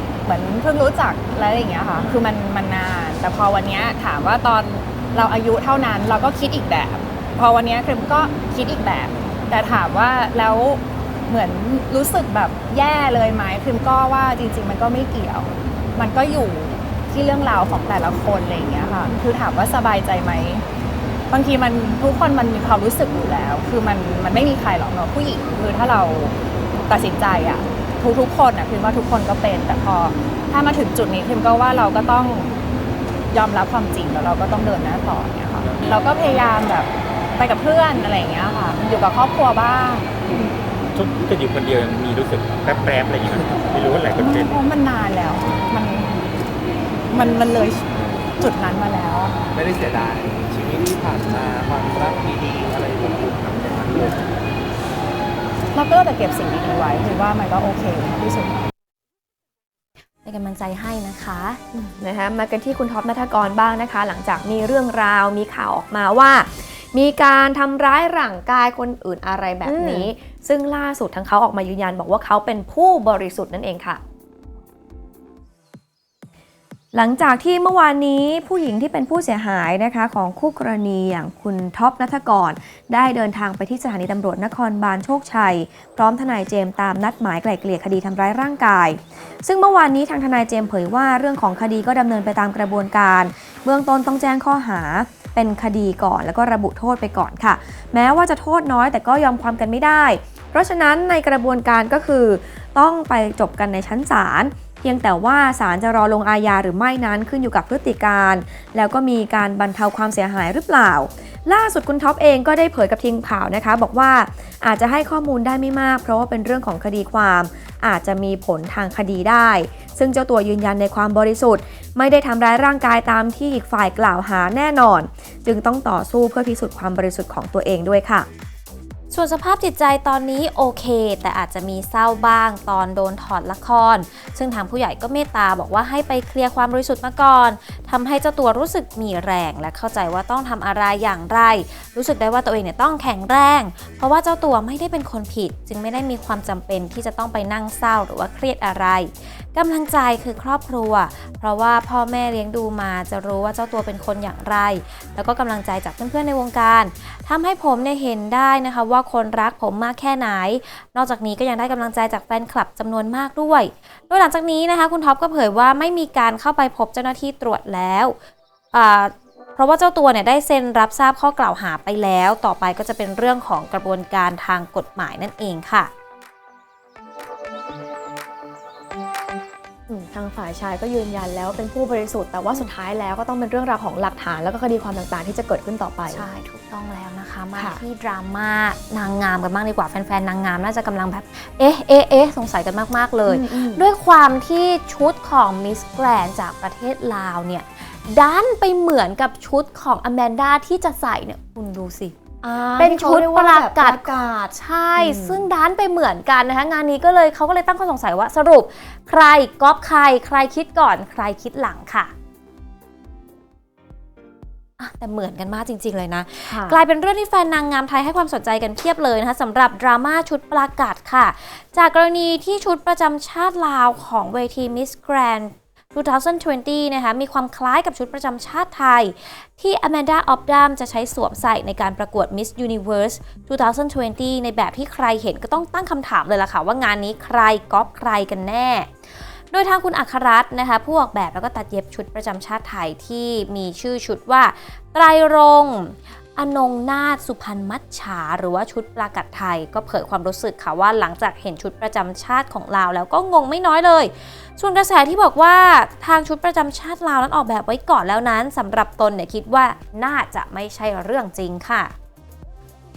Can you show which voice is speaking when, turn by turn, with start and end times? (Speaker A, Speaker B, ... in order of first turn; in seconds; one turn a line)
Speaker A: 0.2-20.6
Speaker A: 21.3-32.5
Speaker A: 33.3-40.1
Speaker B: 40.9-44.6
Speaker A: 44.2-46.3
Speaker A: 47.1-49.4
Speaker C: 49.5-54.3
Speaker A: 55.7-58.6
Speaker D: 60.2-61.6
Speaker E: 61.7-74.0
Speaker D: 69.6-70.1
Speaker E: 76.9-128.3
Speaker D: 129.1-168.2
Speaker D: 168.7-175.9
Speaker E: 179.9-186.2
Speaker D: 186.1-212.1
Speaker E: 187.6-187.8
Speaker E: 193.3-193.8
Speaker E: 202.4-205.4
Speaker D: 214.8-261.9
Speaker E: 216.5-216.8